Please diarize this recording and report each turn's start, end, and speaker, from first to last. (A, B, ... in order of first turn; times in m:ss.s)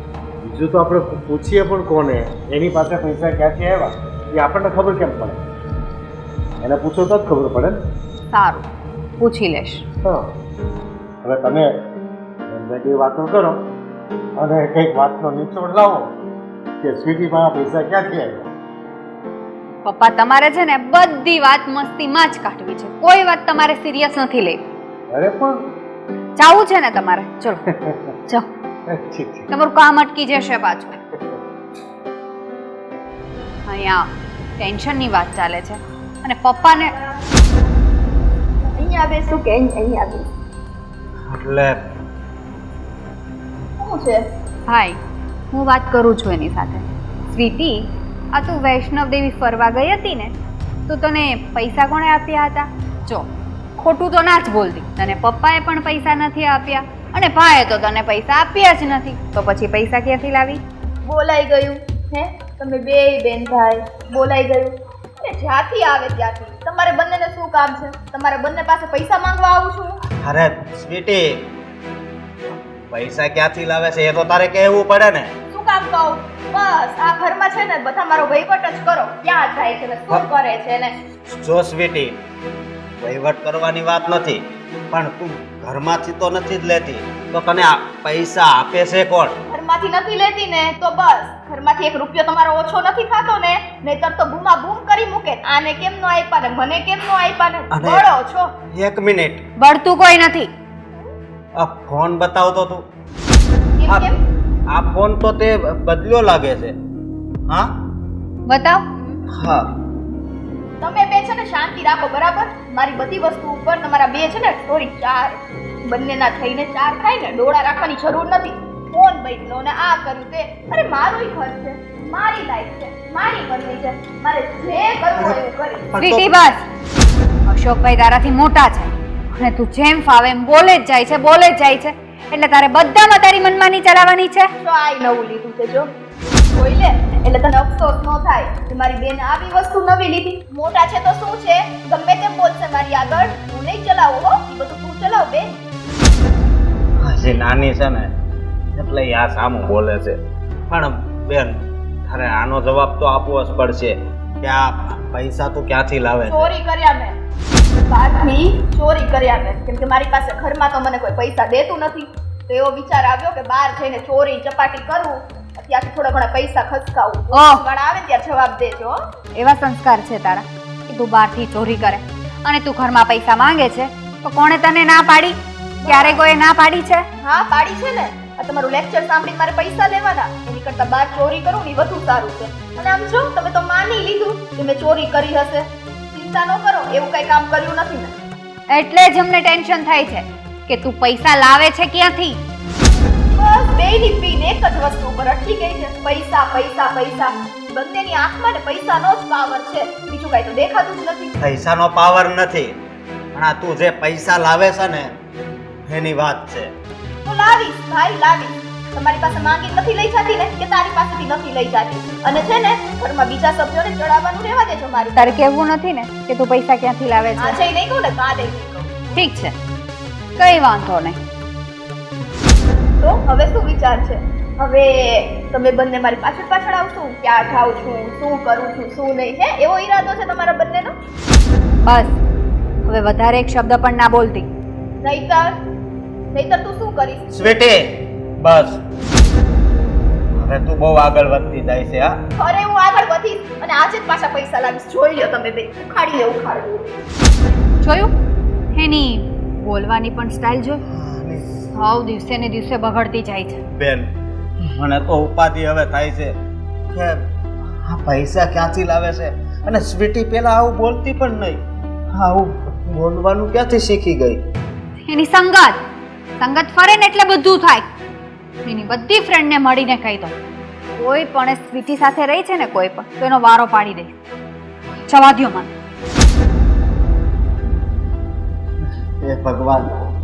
0:00.4-0:05.4 A
0:06.6-0:07.8 A
0:08.3-0:08.7 B
0:09.2-0:09.8 B
0:11.2-0:11.7 A
0:12.5-0:13.6 A
0:14.4-0:16.1 A
0:16.8-0:18.5 A
0:19.8-0:24.6 B
0:25.1-0:25.6 A
0:26.4-0:27.6 B
0:27.8-0:28.1 A
0:28.9-0:29.5 A
0:29.5-0:31.0 B
0:33.7-0:34.1 B
0:34.6-0:37.0 B
0:38.8-0:40.2 C
0:41.3-0:41.8 D
0:43.8-0:44.1 C
0:44.7-0:45.0 B
0:45.5-0:50.3 B
0:50.9-1:00.6 B
1:01.1-1:04.7 C
1:05.2-1:09.9 C
1:10.2-1:11.5 D
1:12.9-1:15.3 D
1:15.5-1:20.9 C
1:21.3-1:22.2 D
1:23.0-1:29.4 D
1:29.5-1:38.5 C
1:37.7-1:38.1 D
1:38.7-1:39.4 D
1:39.6-1:40.5 B
1:41.6-1:42.8 D
1:43.8-1:44.2 D
1:44.7-1:46.8 D
1:48.5-1:49.2 B
1:49.4-1:49.7 D
1:50.8-1:55.4 C
1:55.9-2:05.8 C
2:05.2-2:06.5 D
2:06.0-2:06.6 B
2:07.5-2:14.5 B
2:14.7-2:15.8 C
2:16.6-2:25.4 C
2:27.0-2:28.1 D
2:28.7-2:30.2 D
2:30.7-2:36.6 D
2:36.3-2:37.1 C
2:37.9-2:48.9 C
2:47.3-2:47.6 B
2:49.4-2:57.0 B
2:57.2-3:05.6 C
3:06.1-3:08.1 C
3:08.7-3:12.4 B
3:13.4-3:21.3 C
3:21.4-3:22.8 D
3:23.3-3:25.1 D
3:25.9-3:26.7 D
3:27.3-3:35.1 C
3:35.2-3:37.6 B
3:37.6-3:38.8 C
3:39.1-3:39.6 B
3:40.4-3:41.2 B
3:43.0-3:50.9 C
3:51.8-3:52.1 B
3:52.8-3:54.5 B
3:55.1-3:55.5 C
3:56.3-3:57.2 C
3:57.3-3:58.8 D
4:00.4-4:02.1 D
4:02.4-4:06.8 C
4:07.8-4:08.1 B
4:08.8-4:10.8 B
4:10.9-4:11.6 D
4:11.7-4:13.6 B
4:13.7-4:14.1 D
4:14.7-4:16.3 D
4:17.8-4:21.6 D
4:22.1-4:24.4 D
4:25.1-4:25.8 B
4:26.4-4:27.8 B
4:28.7-4:30.4 B
4:31.0-4:34.2 B
4:35.1-4:35.7 B
4:39.2-4:39.9 D